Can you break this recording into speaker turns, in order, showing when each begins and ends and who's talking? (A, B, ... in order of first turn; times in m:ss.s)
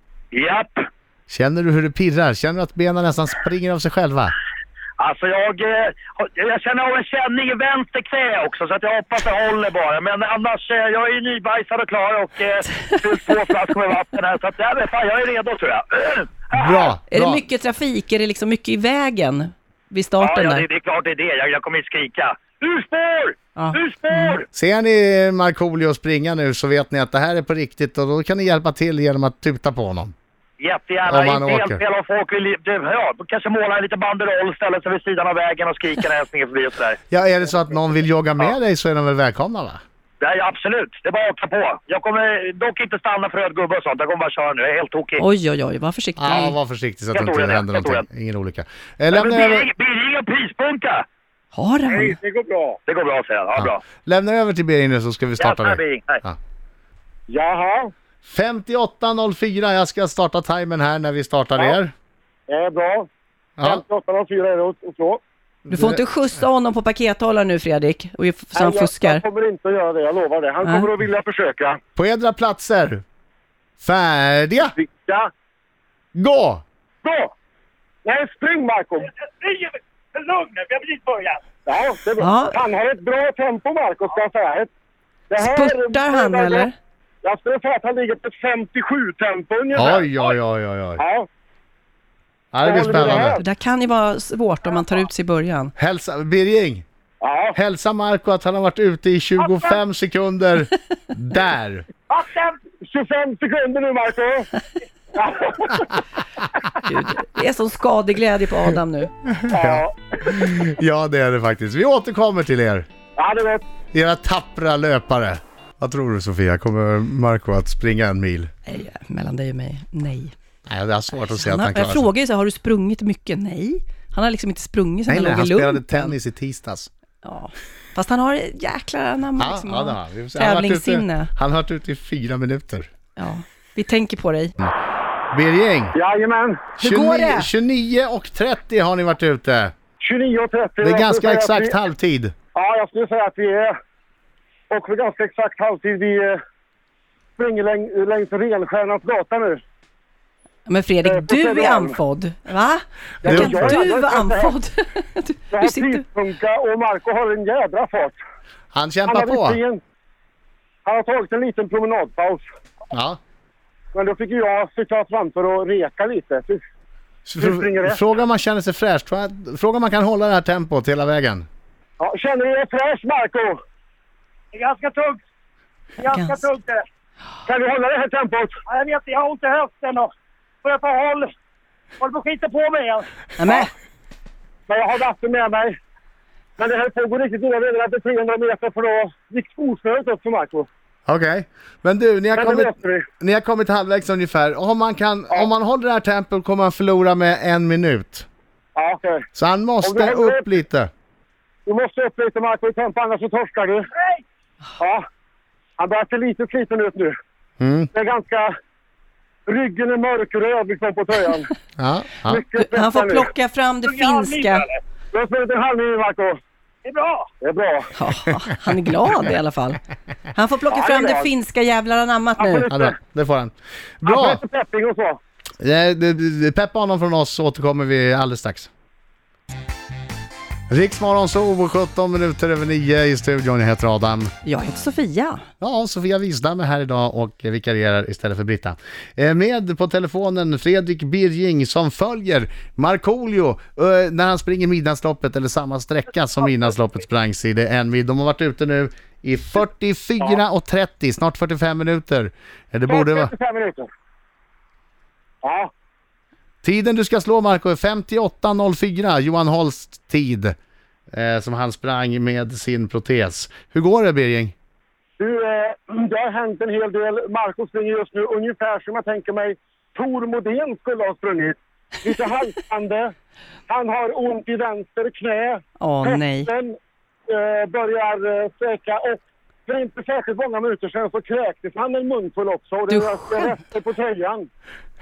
0:00.3-0:00.8 A
0:01.3-0:04.3 B
0:05.0-0:16.9 A
0:16.5-0:17.4 B
0:17.1-0:20.6 C
0:20.2-0:24.4 A
0:23.6-0:24.4 C
0:24.5-0:30.1 B
0:30.6-0:37.0 A
0:31.0-0:31.8 B
0:37.1-0:39.8 B
0:40.2-0:45.2 A
0:45.2-0:46.5 C
0:46.2-0:49.7 B
0:47.1-0:48.0 A
0:49.1-0:51.0 A
0:51.5-0:52.2 C
0:51.9-0:52.8 D
0:52.8-0:53.8 A
0:53.6-0:56.4 B
0:55.4-0:56.2 A
0:57.3-0:57.9 D
0:58.2-1:01.9 B
1:02.5-1:03.1 D
1:03.6-1:03.8 B
1:03.6-1:05.2 D
1:05.7-1:06.0 B
1:05.7-1:09.2 C
1:08.5-1:11.8 D
1:12.0-1:13.0 B
1:13.8-1:14.7 B
1:14.7-1:15.3 D
1:16.1-1:16.6 B
1:17.0-1:17.3 D
1:18.0-1:19.1 D
1:19.4-1:21.4 A
1:21.6-1:24.7 D
1:22.2-1:22.6 C
1:25.3-1:26.7 D
1:25.4-1:26.7 C
1:27.2-1:30.1 D
1:29.8-1:31.0 B
1:31.0-1:31.3 D
1:32.5-1:33.4 B
1:32.6-1:33.4 D
1:33.4-1:35.7 C
1:35.8-1:36.8 B
1:37.2-1:37.6 D
1:37.5-1:41.8 B
1:42.8-1:44.5 D
1:45.1-1:46.0 D
1:46.8-1:49.1 C
1:49.3-1:52.8 B
1:49.5-1:50.0 D
1:53.2-1:53.6 D
1:53.9-1:58.5 B
1:58.7-2:00.3 C
2:00.7-2:02.1 B
2:01.4-2:06.1 C
2:05.1-2:06.9 B
2:07.2-2:11.3 C
2:09.4-2:12.9 B
2:13.2-2:14.5 C
2:15.3-2:15.9 B
2:15.9-2:16.7 D
2:16.8-2:17.5 C
2:16.8-2:19.7 B
2:20.0-2:21.8 D
2:20.8-2:22.3 B
2:22.5-2:23.7 D
2:24.7-2:26.4 D
2:27.4-2:29.6 D
2:30.7-2:36.0 C
2:31.0-2:32.0 D
2:33.2-2:34.5 D
2:33.2-2:33.8 B
2:35.5-2:38.2 D
2:38.7-2:39.6 B
2:39.0-2:39.8 D
2:40.8-2:42.4 D
2:42.9-2:43.2 B
2:43.9-2:46.6 D
2:47.2-2:51.4 B
2:47.4-2:48.0 D
2:52.0-2:53.6 D
2:54.5-2:55.2 A
2:56.0-2:56.8 A
2:56.1-2:56.4 C
2:57.4-2:58.6 D
2:58.7-3:00.1 A
3:00.6-3:01.3 A
3:02.0-3:03.1 A
3:03.4-3:03.7 C
3:04.7-3:05.8 D
3:06.6-3:10.7 D
3:11.1-3:18.2 B
3:12.4-3:13.1 D
3:18.8-3:19.2 D
3:19.3-3:20.9 B
3:19.8-3:20.5 D
3:21.6-3:23.9 D
3:24.8-3:25.0 D
3:25.8-3:27.1 D
3:27.6-3:27.9 B
3:27.9-3:28.5 D
3:29.4-3:31.5 D
3:31.8-3:32.4 B
3:32.2-3:33.3 D
3:32.6-3:34.7 C
3:33.8-3:34.8 A
3:35.1-3:36.4 D
3:36.8-3:37.3 A
3:37.4-3:37.9 D
3:38.0-3:39.8 C
3:40.3-3:42.7 C
3:40.7-3:41.3 D
3:42.4-3:43.0 D
3:42.7-3:44.4 B
3:44.0-3:45.2 D
3:45.6-3:48.7 B
3:50.7-3:54.3 B
3:54.4-3:55.4 C
3:55.6-4:13.3 B
4:12.9-4:13.9 D
4:15.4-4:15.7 D
4:16.6-4:20.5 B
4:21.1-4:24.5 B
4:25.2-4:33.1 D
4:33.7-4:36.8 D
4:35.8-4:36.5 C
4:37.3-4:44.5 D